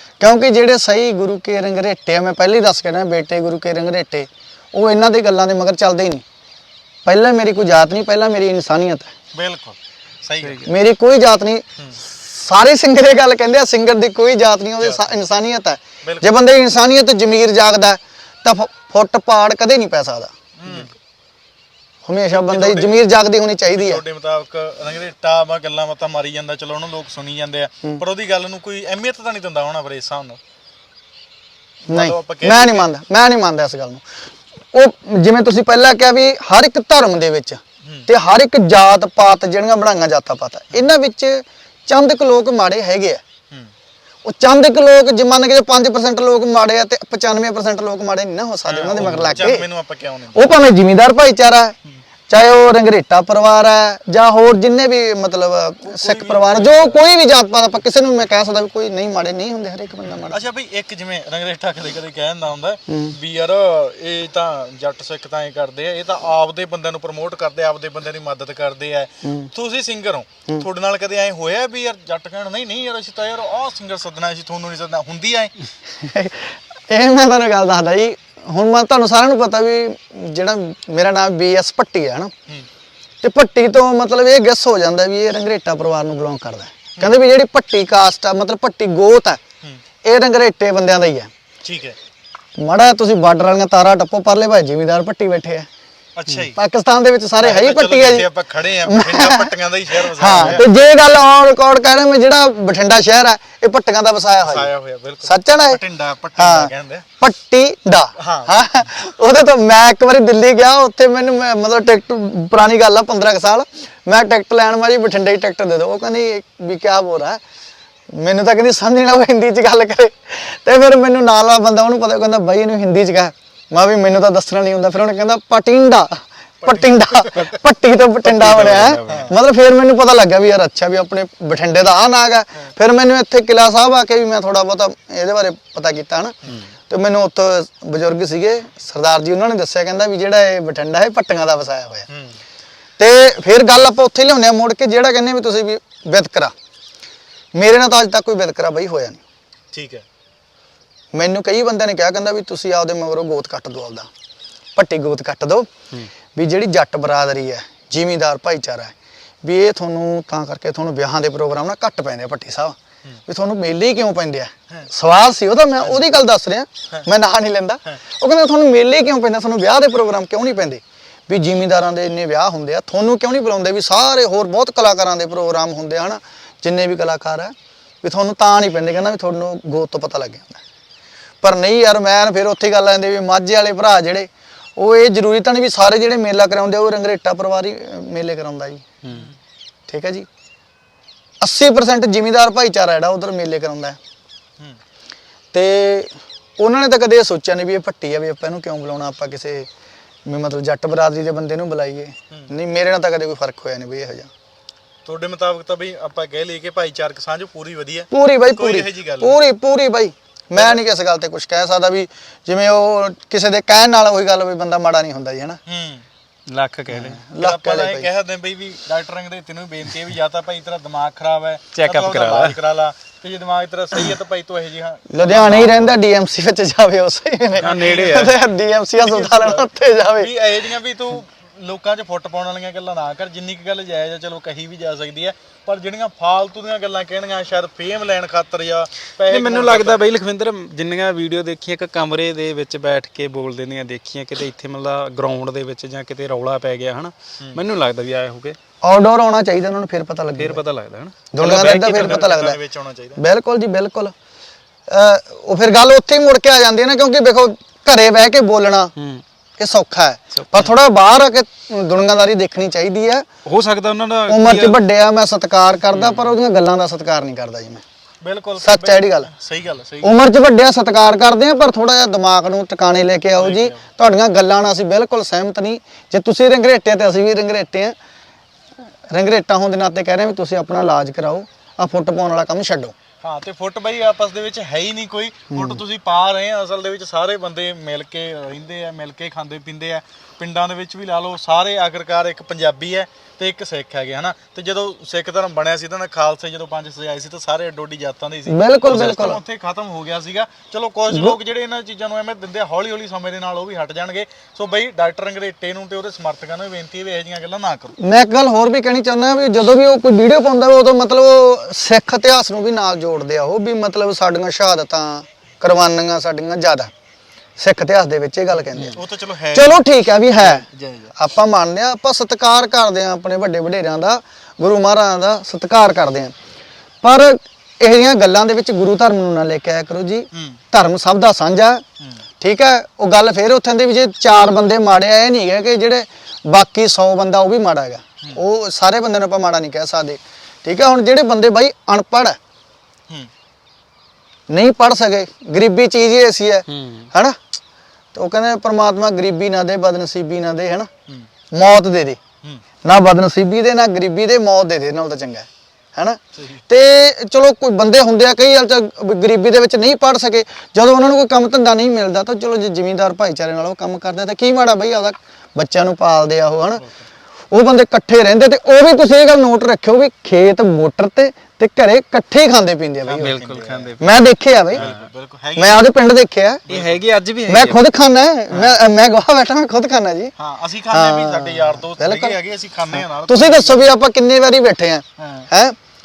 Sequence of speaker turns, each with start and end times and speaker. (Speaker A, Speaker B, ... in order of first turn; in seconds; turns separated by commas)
Speaker A: 0.2-6.2, Speaker A: 7.0-9.1, Speaker B: 9.3-10.7, Speaker C: 10.4-10.7, Speaker A: 10.7-20.3, Speaker B: 14.8-15.1, Speaker B: 16.0-16.3, Speaker B: 20.6-20.9, Speaker A: 22.0-24.0, Speaker B: 22.3-23.0, Speaker B: 23.7-30.4, Speaker A: 31.9-34.0, Speaker B: 31.9-32.9, Speaker A: 34.7-43.2, Speaker A: 44.2-49.6, Speaker B: 48.6-50.5, Speaker C: 49.0-49.4, Speaker A: 50.3-51.7, Speaker A: 52.3-60.4, Speaker B: 55.8-57.0, Speaker B: 60.3-75.5, Speaker A: 62.9-63.1, Speaker A: 69.2-69.5, Speaker A: 76.0-82.3, Speaker A: 83.2-89.4, Speaker A: 90.0-91.3, Speaker B: 91.6-92.0, Speaker A: 92.6-95.7, Speaker B: 96.1-96.5, Speaker A: 96.5-98.3, Speaker B: 97.4-100.6, Speaker A: 98.8-99.5, Speaker A: 100.1-104.7, Speaker B: 104.4-107.0, Speaker A: 105.2-105.8, Speaker A: 106.4-117.4, Speaker B: 108.2-108.7, Speaker A: 118.1-136.3, Speaker B: 126.6-127.5, Speaker C: 128.2-129.3, Speaker B: 129.1-129.3, Speaker A: 136.9-142.1, Speaker B: 142.1-142.4, Speaker A: 143.0-146.5, Speaker A: 147.5-149.2, Speaker B: 149.7-150.0, Speaker A: 151.1-154.1, Speaker A: 154.8-155.7, Speaker A: 156.3-180.6, Speaker A: 181.4-188.8, Speaker A: 189.9-190.3, Speaker A: 191.4-194.0, Speaker A: 195.5-199.7, Speaker A: 200.2-204.3, Speaker B: 205.0-209.4, Speaker A: 208.1-215.6, Speaker B: 210.5-210.8, Speaker B: 215.7-216.0, Speaker C: 216.5-217.2, Speaker A: 216.9-218.1, Speaker B: 217.4-226.0, Speaker C: 221.7-222.6, Speaker A: 225.1-230.3, Speaker B: 227.6-228.4, Speaker C: 227.6-228.4, Speaker B: 229.0-240.0, Speaker C: 239.3-248.6, Speaker A: 248.8-250.6, Speaker C: 250.4-252.3, Speaker A: 251.3-252.6, Speaker B: 251.4-253.2, Speaker A: 253.2-254.1, Speaker A: 254.9-258.9, Speaker C: 258.9-259.2, Speaker A: 259.6-263.2, Speaker C: 260.4-260.6, Speaker C: 263.4-264.8, Speaker A: 264.3-267.8, Speaker B: 266.0-266.3, Speaker B: 268.2-270.1, Speaker A: 268.6-269.3, Speaker A: 270.0-277.9, Speaker B: 273.4-273.8, Speaker A: 279.1-282.9, Speaker B: 283.2-307.9, Speaker A: 285.5-285.8, Speaker A: 298.5-299.4, Speaker A: 301.1-301.4, Speaker A: 308.0-316.9, Speaker A: 317.6-319.0, Speaker B: 318.8-321.1, Speaker A: 319.5-320.6, Speaker A: 321.1-326.3, Speaker A: 327.0-331.8, Speaker B: 330.3-330.6, Speaker A: 332.4-342.4, Speaker A: 344.5-347.4, Speaker C: 346.7-347.1, Speaker A: 348.1-350.9, Speaker A: 351.5-352.2, Speaker A: 352.8-366.8, Speaker A: 367.5-373.4, Speaker C: 373.1-374.2, Speaker B: 373.1-373.9, Speaker A: 374.0-374.8, Speaker B: 374.7-375.9, Speaker C: 374.7-375.1, Speaker A: 375.6-376.6, Speaker B: 376.6-377.0, Speaker C: 376.7-377.8, Speaker A: 377.5-380.3, Speaker C: 378.5-378.8, Speaker B: 380.4-383.9, Speaker A: 380.9-382.4, Speaker A: 383.0-385.7, Speaker B: 385.2-385.5